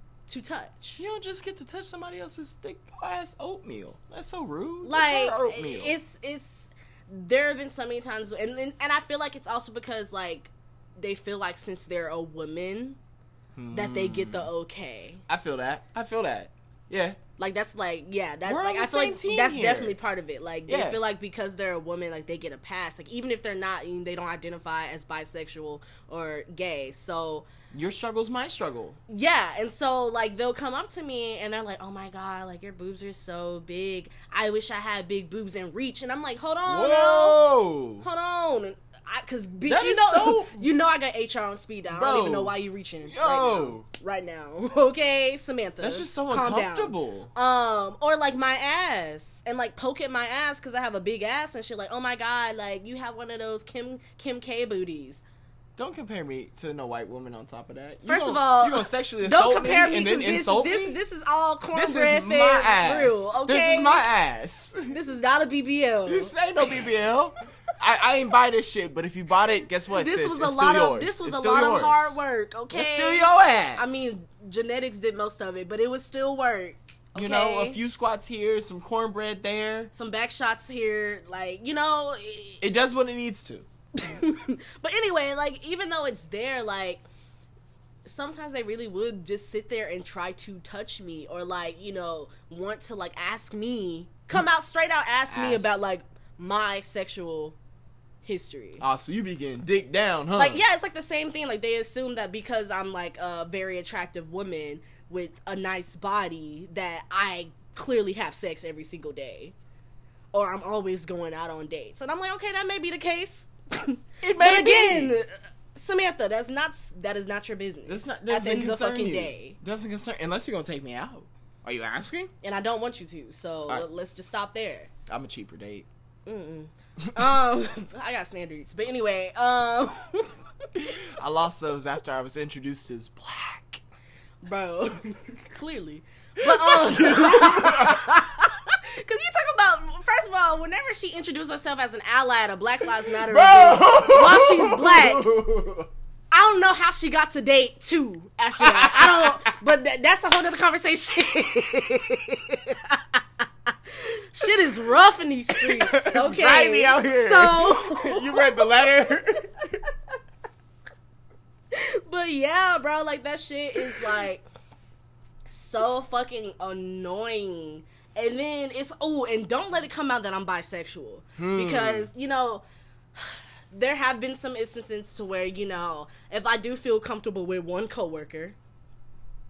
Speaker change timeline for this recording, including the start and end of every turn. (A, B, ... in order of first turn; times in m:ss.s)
0:00.3-0:01.0 A
0:01.0-0:06.0 B
0:04.8-0:13.0 A
0:13.6-0:14.5 B
0:13.7-0:15.2 A
0:15.3-0:17.2 B
0:17.4-0:27.5 A
0:18.5-0:20.0 B
0:20.7-0:21.0 B
0:27.7-0:29.0 B
0:29.1-0:37.4 A
0:36.6-0:38.0 B
0:38.0-0:55.2 A
0:39.7-0:40.7 B
0:41.9-0:42.5 B
0:43.0-0:43.9 B
0:45.8-0:47.3 B
0:55.8-1:01.0 B
0:58.1-1:04.1 A
1:01.7-1:05.0 B
1:04.9-1:06.4 A
1:06.1-1:12.2 B
1:09.9-1:17.8 A
1:12.7-1:14.1 B
1:17.2-1:19.9 B
1:19.9-1:22.6 A
1:22.6-1:23.7 B
1:24.0-1:27.0 A
1:28.0-1:37.6 A
1:35.3-1:35.8 B
1:38.2-1:38.8 A
1:38.8-1:40.6 B
1:40.4-1:49.5 A
1:50.3-1:59.6 A
1:54.2-1:55.2 B
1:57.9-2:02.3 B
2:02.4-2:04.9 A
2:05.1-2:05.9 B
2:06.3-2:10.4 A
2:07.1-2:07.3 B
2:10.8-2:13.8 B
2:14.4-2:25.3 A
2:16.4-2:18.2 B
2:23.1-2:25.9 B
2:26.3-2:38.8 A
2:28.6-2:29.6 B
2:35.5-2:39.7 B
2:41.7-2:44.4 A
2:43.8-2:44.2 B
2:45.5-2:52.6 A
2:51.4-2:52.1 B
2:53.2-2:58.6 A